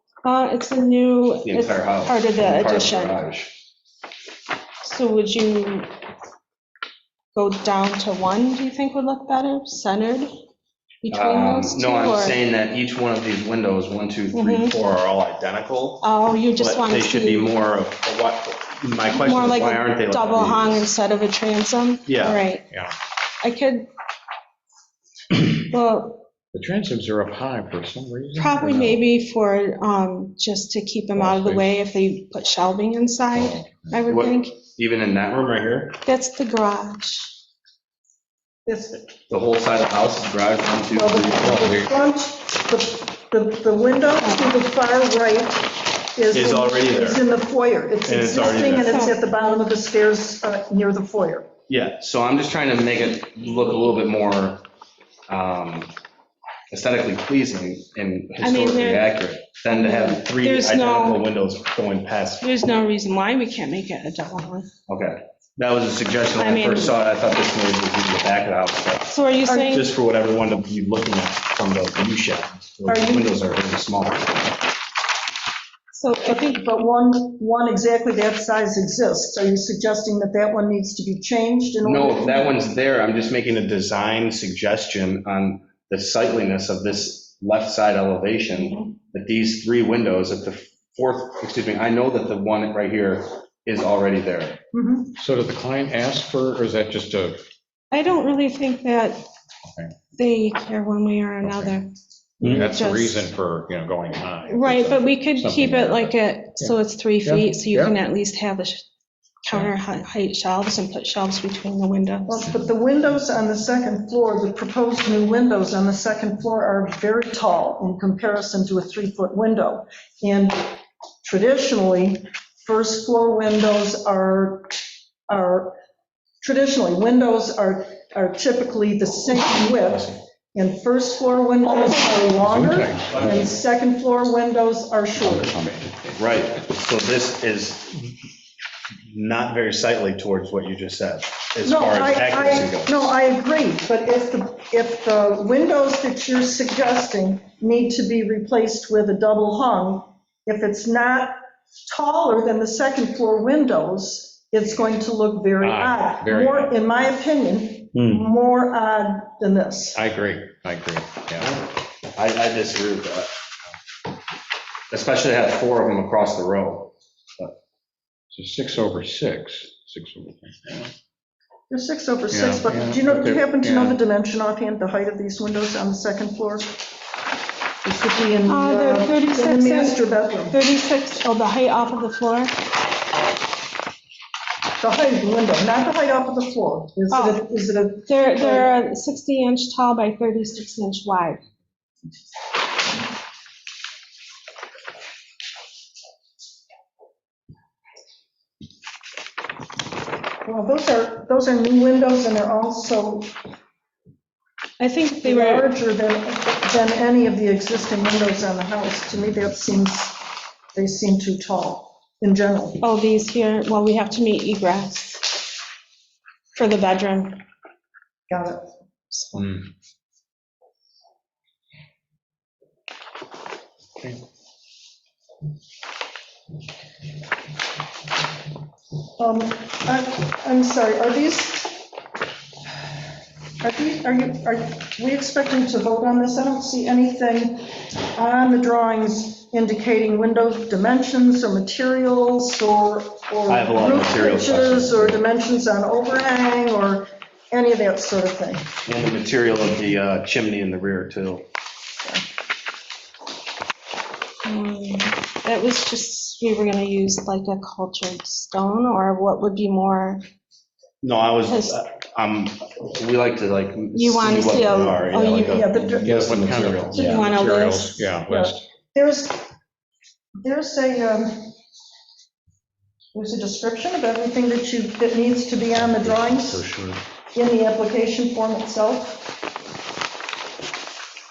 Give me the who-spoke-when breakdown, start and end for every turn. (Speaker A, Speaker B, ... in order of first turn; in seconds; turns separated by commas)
Speaker A: 0.2-3.2, Speaker B: 1.4-3.5, Speaker A: 4.8-5.9, Speaker A: 7.3-10.4, Speaker A: 11.0-12.4, Speaker B: 11.1-20.9, Speaker A: 14.3-14.7, Speaker A: 16.0-17.5, Speaker A: 19.1-22.7, Speaker B: 22.1-22.4, Speaker A: 23.4-23.9, Speaker A: 25.5-26.3, Speaker C: 26.5-29.0, Speaker A: 28.3-34.6, Speaker C: 31.2-31.7, Speaker C: 33.3-33.9, Speaker B: 34.1-36.0, Speaker A: 36.0-37.3, Speaker D: 38.7-39.0, Speaker B: 39.3-41.6, Speaker D: 40.9-51.5, Speaker C: 41.5-41.9, Speaker B: 46.3-47.2, Speaker B: 48.0-49.0, Speaker A: 48.4-49.7, Speaker B: 51.7-54.6, Speaker B: 55.3-55.9, Speaker B: 56.7-62.4, Speaker A: 58.4-59.2, Speaker A: 59.8-61.3, Speaker A: 62.4-64.7, Speaker B: 64.9-74.5, Speaker A: 66.3-66.9, Speaker A: 69.1-69.9, Speaker D: 69.5-69.8, Speaker D: 72.9-73.3, Speaker A: 75.9-76.6, Speaker D: 76.2-82.6, Speaker B: 81.8-94.6, Speaker A: 88.5-88.9, Speaker D: 94.7-95.2, Speaker C: 95.2-97.4, Speaker A: 97.9-99.2, Speaker A: 100.2-103.3, Speaker C: 101.4-101.8, Speaker C: 102.4-107.9, Speaker A: 104.5-108.8, Speaker A: 109.4-112.5, Speaker D: 112.3-125.8, Speaker D: 126.4-135.6, Speaker C: 132.4-133.5, Speaker C: 135.2-136.2, Speaker B: 136.2-138.1, Speaker B: 139.1-143.1, Speaker D: 141.7-151.4, Speaker D: 151.9-160.0, Speaker C: 155.6-156.7, Speaker C: 157.9-158.3, Speaker C: 159.9-161.5, Speaker B: 161.4-163.3, Speaker B: 164.9-167.5, Speaker C: 168.3-170.9, Speaker D: 171.7-176.8, Speaker C: 172.3-174.0, Speaker D: 177.8-180.6, Speaker A: 178.5-182.5, Speaker D: 184.8-188.7, Speaker A: 187.1-187.4, Speaker A: 188.1-191.4, Speaker D: 200.4-203.3, Speaker A: 204.8-205.7, Speaker D: 205.2-212.8, Speaker A: 212.8-215.4, Speaker A: 216.5-217.4, Speaker D: 218.3-218.7, Speaker A: 219.1-219.4, Speaker C: 219.3-219.7, Speaker D: 229.2-231.8, Speaker D: 233.6-248.7, Speaker B: 243.5-245.2, Speaker B: 248.9-251.4, Speaker A: 254.4-260.2, Speaker B: 261.0-267.3, Speaker A: 261.4-261.8, Speaker A: 263.9-265.8, Speaker D: 265.4-266.4, Speaker C: 266.0-268.6, Speaker A: 266.9-268.1, Speaker D: 268.2-269.4, Speaker D: 270.4-271.6, Speaker D: 273.1-276.6, Speaker C: 275.8-277.0, Speaker D: 277.4-279.3